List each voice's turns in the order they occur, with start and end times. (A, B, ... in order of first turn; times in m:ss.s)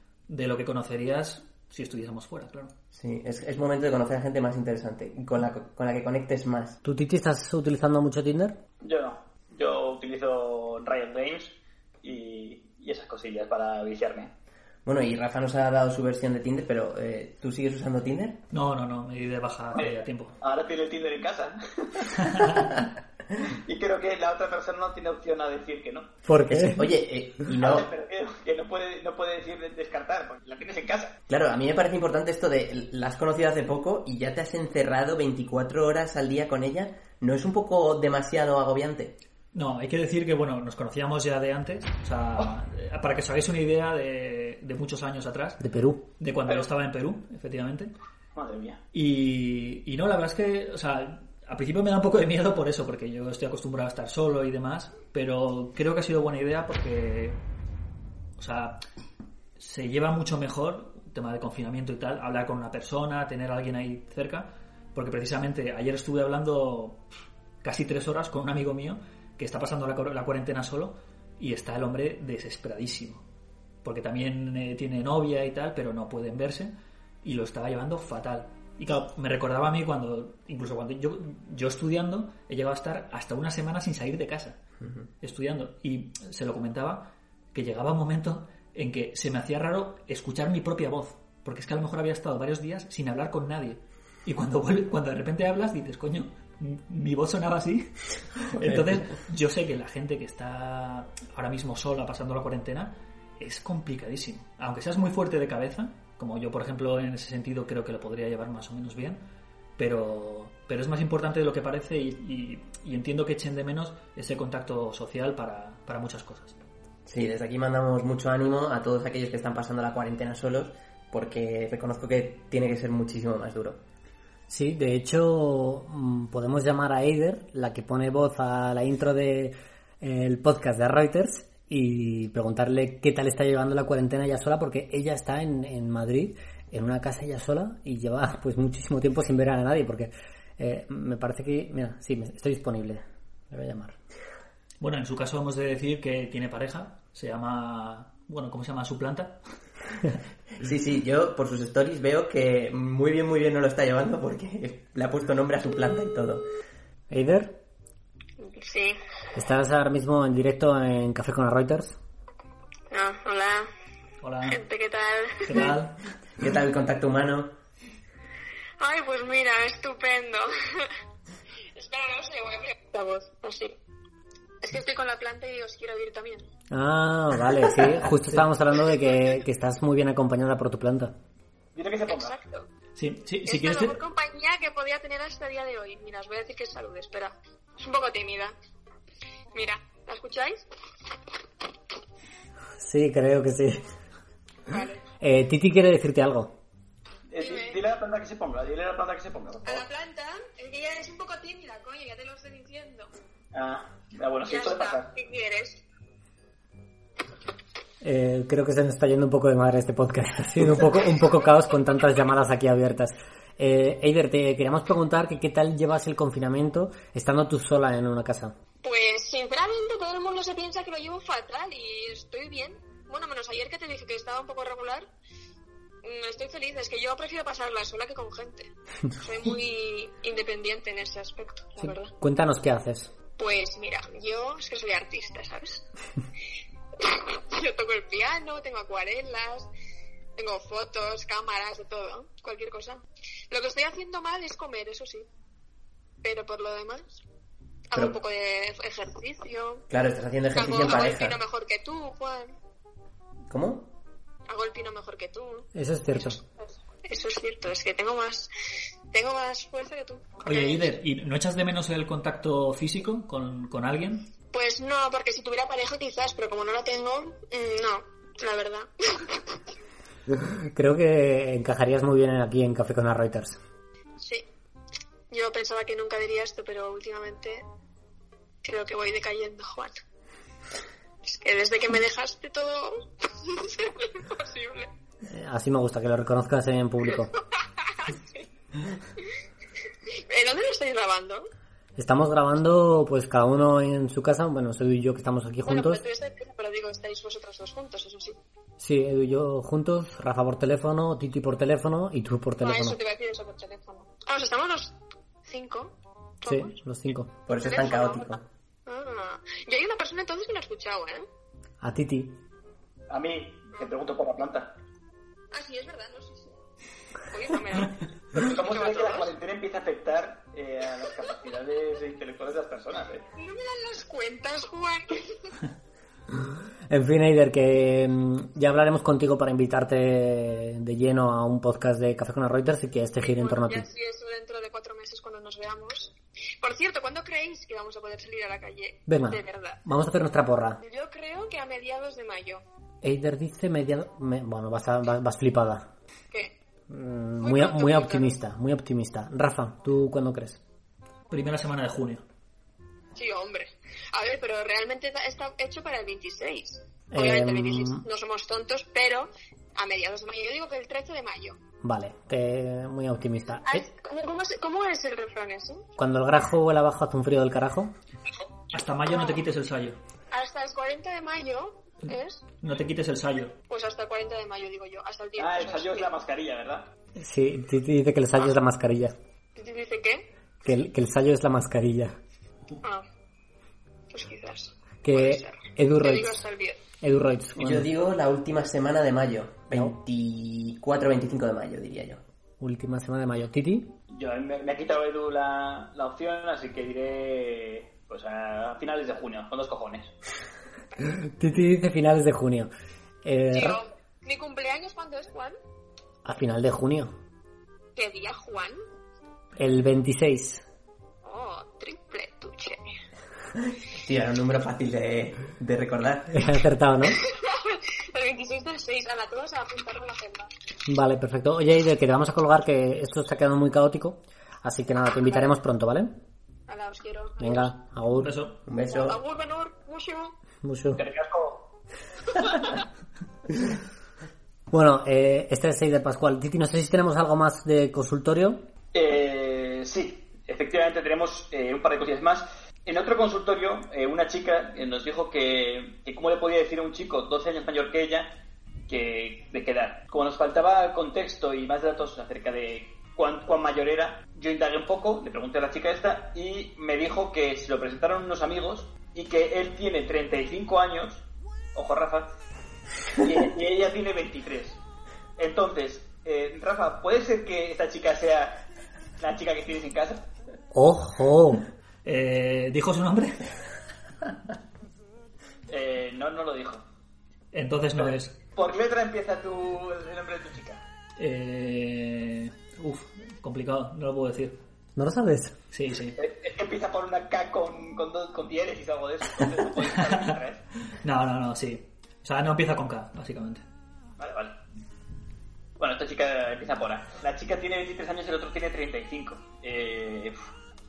0:00.3-0:02.7 A
0:02.9-0:06.8 B
0:06.8-0:08.6 C
0:08.8-0:14.3 D
0:14.8-0:18.4 B
0:18.5-0:20.4 A
0:19.7-0:22.6 D
0:23.4-0:26.1 D
0:26.2-0:26.9 C
0:26.5-0:27.9 B
0:27.6-0:31.2 D
0:31.3-0:39.2 B
0:39.5-0:45.6 A
0:45.6-0:46.0 C
0:46.2-0:47.9 A
0:48.3-0:48.8 D
0:48.9-0:57.4 A
0:58.4-0:58.8 A
0:59.6-1:07.0 A
1:07.6-1:13.2 A
1:13.8-1:24.6 A
1:24.8-1:25.1 B
1:25.2-1:49.2 A
1:38.6-1:39.0 B
1:49.8-1:56.6 A
1:57.0-2:03.8 B
2:04.5-2:24.0 C
2:24.8-2:29.4 A
2:30.6-2:36.5 B
2:37.1-2:37.6 C
2:38.4-2:39.0 E
2:39.3-2:42.0 C
2:42.9-2:43.7 E
2:44.2-2:44.6 A
2:44.4-2:45.7 E
2:45.4-2:46.0 A
2:46.4-2:47.5 B
2:48.8-2:50.9 E
2:51.7-2:53.8 E
2:54.6-2:56.5 E
2:56.7-3:01.1 C
3:01.7-3:02.4 D
3:02.0-3:02.6 E
3:03.0-3:04.0 A
3:03.4-3:08.5 E
3:09.5-3:10.6 E
3:12.8-3:13.8 C
3:14.7-3:15.0 E
3:15.2-3:16.5 C
3:17.3-3:19.8 D
3:17.4-3:17.8 E
3:19.6-3:23.1 E
3:23.5-3:25.1 D
3:24.4-3:25.8 E
3:28.0-3:38.5 C
3:38.8-3:45.1 E
3:46.0-3:52.1 E
3:51.8-3:53.1 C
3:53.4-3:55.8 E
3:57.0-3:59.7 E
4:00.4-4:05.3 E
4:06.2-4:07.2 E
4:07.9-4:09.8 E
4:09.9-4:11.4 B
4:10.5-4:12.6 E
4:13.5-4:13.9 B
4:14.5-4:18.5 E
4:15.7-4:16.4 C
4:19.1-4:20.9 E
4:20.4-4:24.3 A
4:24.5-4:29.4 E
4:30.7-4:33.6 C
4:34.2-4:34.4 E
4:35.3-4:37.6 E
4:38.6-4:40.0 E
4:41.2-4:44.9 E
4:45.3-4:47.3 C
4:47.2-4:48.4 E
4:50.3-4:51.5 E
4:52.0-4:56.0 C
4:55.6-4:58.4 E
4:58.8-5:03.0 C
5:02.6-5:06.8 E
5:06.4-5:07.3 C
5:07.5-5:08.4 B
5:07.5-5:11.3 E
5:11.8-5:12.3 C
5:13.1-5:14.7 D
5:15.5-5:16.5 E
5:17.3-5:19.3 E
5:18.3-5:23.2 D
5:23.4-5:25.3 E
5:26.9-5:33.9 C
5:33.2-5:39.8 E
5:39.1-5:40.8 C
5:40.8-5:42.6 E
5:43.0-5:45.9 C
5:46.9-5:50.6 C
5:47.4-5:48.3 E
5:51.3-5:52.2 A
5:53.1-6:01.6 E
5:57.1-5:58.0 C
6:01.8-6:03.8 C
6:03.7-6:05.8 E
6:06.0-6:07.9 C
6:08.7-6:10.0 A
6:09.0-6:09.4 E
6:10.3-6:12.4 E
6:12.6-6:13.6 A
6:13.7-6:16.1 E
6:15.4-6:16.9 D
6:17.2-6:19.1 C
6:19.6-6:20.3 E
6:20.6-6:22.2 C
6:24.1-6:26.8 E
6:25.0-6:26.3 C
6:27.0-6:27.9 C
6:27.6-6:32.2 B
6:32.6-6:33.9 C
6:34.1-6:40.1 D
6:41.0-6:42.7 C
6:43.2-6:43.8 C
6:43.5-6:45.6 E
6:46.2-6:47.1 C
6:48.0-6:48.8 E
6:49.6-6:50.6 C
6:51.2-6:52.8 E
6:53.9-6:56.4 B
6:56.3-6:57.2 C
6:57.1-7:00.5 E
7:00.9-7:06.2 C
7:05.2-7:05.5 E
7:06.7-7:07.7 E
7:07.4-7:08.3 C
7:08.1-7:08.6 A
7:08.7-7:09.2 B
7:08.9-7:10.4 E
7:10.6-7:11.0 C
7:11.0-7:11.7 D
7:12.4-7:12.8 E
7:14.7-7:18.6 C
7:18.9-7:28.3 D
7:28.9-7:42.3 D
7:43.2-7:44.8 D
7:45.4-7:48.6 D
7:49.2-7:50.2 D
7:50.7-7:51.6 C
7:52.0-7:53.5 A
7:55.7-7:56.8 D
7:57.5-7:58.4 A
7:58.0-8:00.8 D
8:01.2-8:04.6 A
8:05.0-8:05.6 C
8:05.7-8:06.2 A
8:06.2-8:10.6 D
8:11.0-8:13.6 A
8:14.2-8:14.6 D
8:15.8-8:20.4 D